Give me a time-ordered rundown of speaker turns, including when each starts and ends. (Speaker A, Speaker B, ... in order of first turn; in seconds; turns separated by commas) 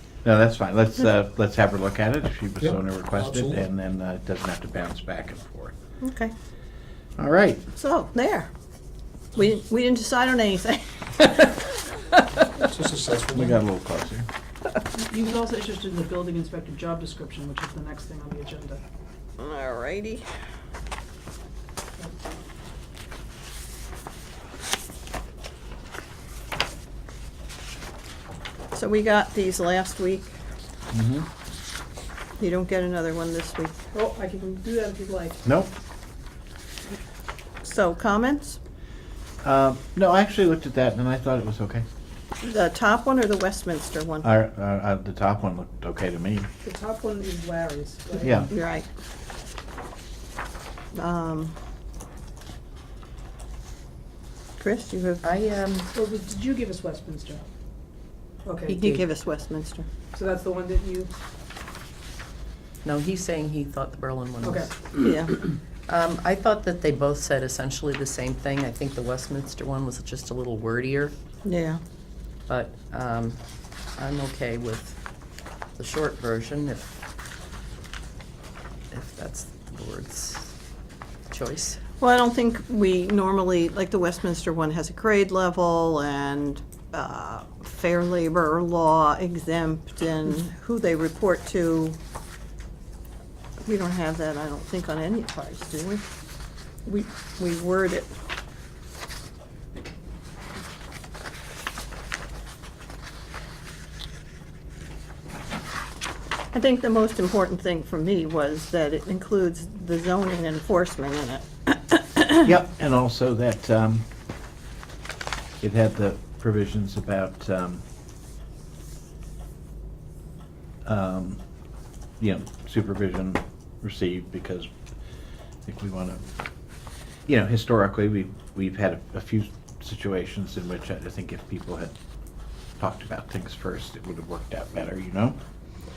Speaker A: 0.2-5.7, Speaker B: 2.6-3.7, Speaker C: 6.0-6.3, Speaker A: 7.2-7.6, Speaker C: 7.7-8.5, Speaker C: 9.4-12.5, Speaker B: 12.6-13.6, Speaker A: 13.3-14.3, Speaker D: 14.9-18.8, Speaker C: 19.4-20.3, Speaker C: 28.7-30.4, Speaker A: 30.9-31.3, Speaker C: 32.4-33.8, Speaker D: 33.9-35.4, Speaker A: 35.5-35.7, Speaker C: 37.6-38.6, Speaker A: 39.4-41.9, Speaker C: 42.4-44.3, Speaker A: 44.2-46.5, Speaker D: 46.6-48.5, Speaker A: 48.2-48.5, Speaker C: 48.5-48.9, Speaker C: 50.9-51.5, Speaker C: 54.6-55.2, Speaker E: 55.2-55.9, Speaker D: 55.9-57.4, Speaker D: 58.5-59.0, Speaker C: 58.7-59.9, Speaker D: 60.1-61.1, Speaker E: 62.8-64.9, Speaker D: 64.4-64.8, Speaker C: 65.0-65.4, Speaker E: 65.9-71.2, Speaker C: 71.4-71.8, Speaker E: 72.5-73.4, Speaker E: 74.0-75.0, Speaker E: 75.8-76.9, Speaker E: 78.9-80.5, Speaker E: 81.3-81.8, Speaker C: 82.0-92.0, Speaker C: 93.7-96.0, Speaker C: 96.9-98.1, Speaker C: 106.5-112.5, Speaker A: 112.5-114.0, Speaker A: 115.6-117.8, Speaker A: 120.9-121.4, Speaker A: 122.2-124.7, Speaker A: 125.7-126.2, Speaker A: 127.3-131.9, Speaker A: 132.8-135.4